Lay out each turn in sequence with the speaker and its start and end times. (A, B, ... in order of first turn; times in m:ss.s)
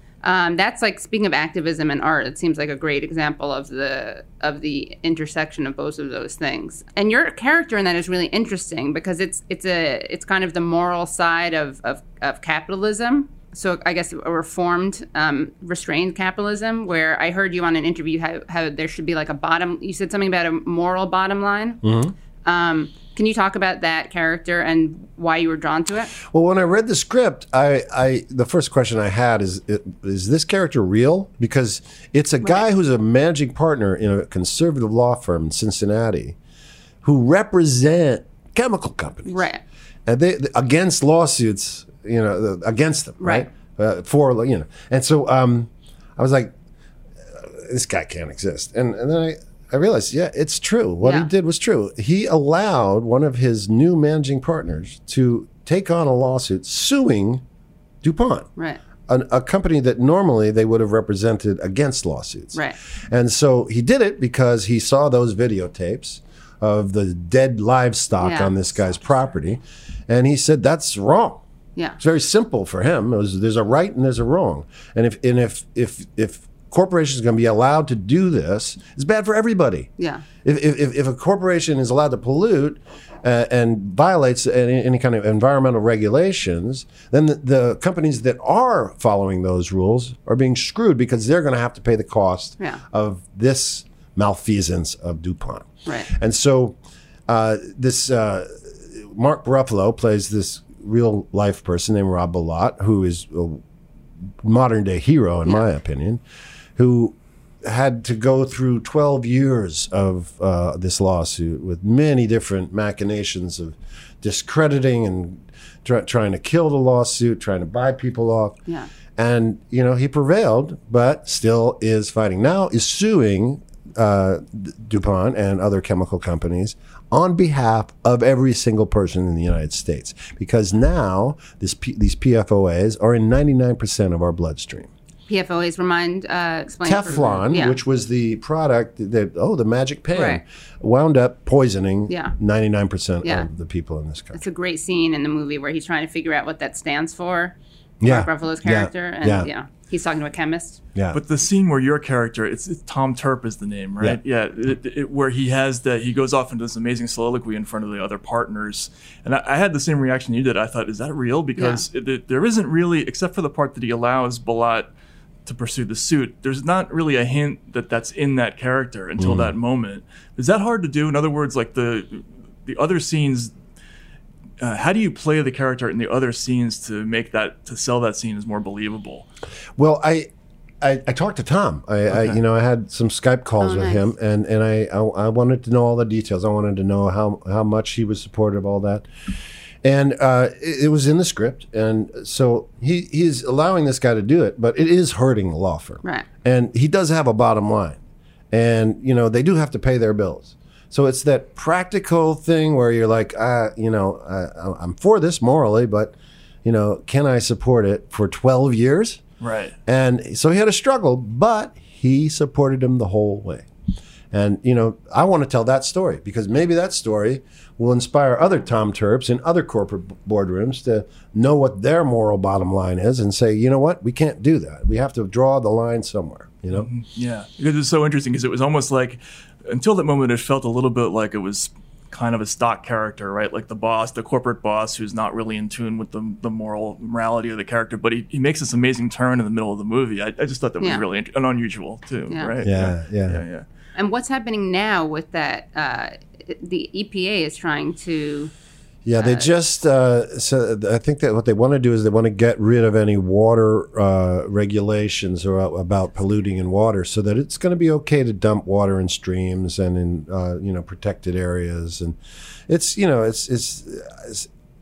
0:00.2-0:21.8 A
0:21.8-0:22.1 B
0:22.4-0:26.1 A
0:26.2-0:36.4 B
0:37.0-0:39.5 B
0:39.2-0:39.6 A
0:40.0-0:46.5 B
0:43.2-0:43.5 A
0:47.4-0:57.4 B
0:51.0-0:51.3 A
0:58.0-0:58.5 B
0:58.6-0:58.8 A
0:59.1-1:11.4 B
1:08.2-1:09.0 A
1:12.0-1:19.9 B
1:20.0-1:20.2 A
1:20.4-1:36.8 B
1:37.3-1:43.6 B
1:44.4-1:46.2 B
1:46.8-1:58.6 B
1:59.1-2:14.9 B
2:15.3-2:17.8 A
2:16.8-2:24.4 B
2:20.1-2:20.4 A
2:22.1-2:22.3 A
2:24.3-2:30.8 A
2:28.0-2:29.5 B
2:31.1-2:44.9 C
2:41.6-2:41.8 A
2:45.4-2:53.5 C
2:49.2-2:49.5 B
2:54.6-2:59.3 C
2:59.8-3:00.3 B
3:00.8-3:09.1 B
3:02.1-3:02.4 C
3:03.6-3:04.1 A
3:09.8-3:18.0 B
3:18.5-3:29.2 B
3:29.4-3:29.8 C
3:29.8-3:33.7 B
3:34.3-3:46.9 B
3:46.7-4:03.6 C
4:02.6-4:03.4 B
4:03.9-4:08.5 A
4:09.0-4:22.2 B
4:09.2-4:09.5 A
4:22.7-4:24.5 B